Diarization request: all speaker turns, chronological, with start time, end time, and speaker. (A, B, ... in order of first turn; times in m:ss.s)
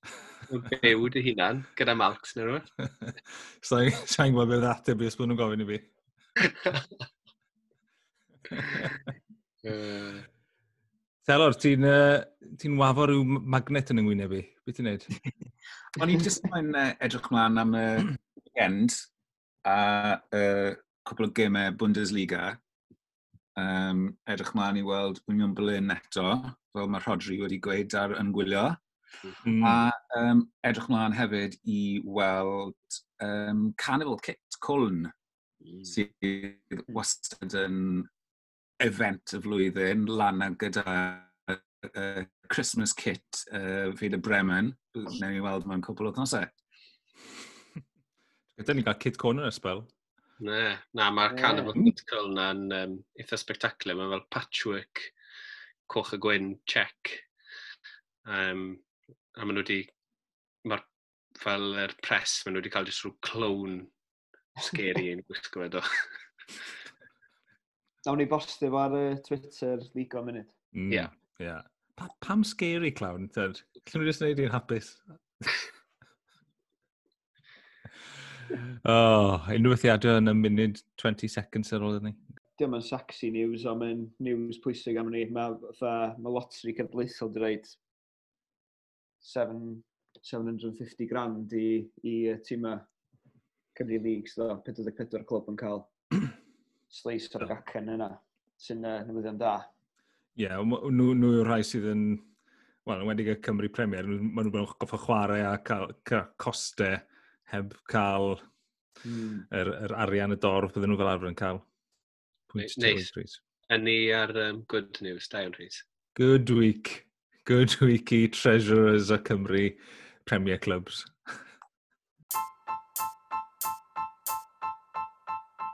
0:00.5-0:02.7 A
0:02.9-0:05.9 B
0:08.5-0:09.0 B
0:09.6-0:10.3 A
0:11.3-0:15.1 B
0:15.9-0:19.0 C
0:19.6-0:22.6 C
0:23.6-0:28.8 C
0:29.4-0:29.8 B
0:29.6-0:35.1 C
0:35.8-0:38.1 C
0:38.8-0:46.5 C
0:48.6-0:49.9 B
0:50.4-0:55.1 A
0:51.3-0:51.7 D
0:55.9-0:57.2 A
0:58.2-0:58.8 A
0:59.4-0:59.9 A
1:01.4-1:03.9 A
1:04.6-1:06.0 A
1:08.1-1:10.5 D
1:10.8-1:15.7 B
1:18.5-1:22.2 B
1:22.6-1:27.8 D
1:29.2-1:32.9 D
1:33.8-1:35.9 D
1:36.9-1:39.7 D
1:40.4-1:42.3 B
1:42.9-1:48.4 B
1:49.0-1:49.5 D
1:49.5-1:51.6 B
1:52.5-1:53.4 B
1:52.6-1:53.1 A
1:53.7-1:55.8 A
1:56.2-2:01.1 B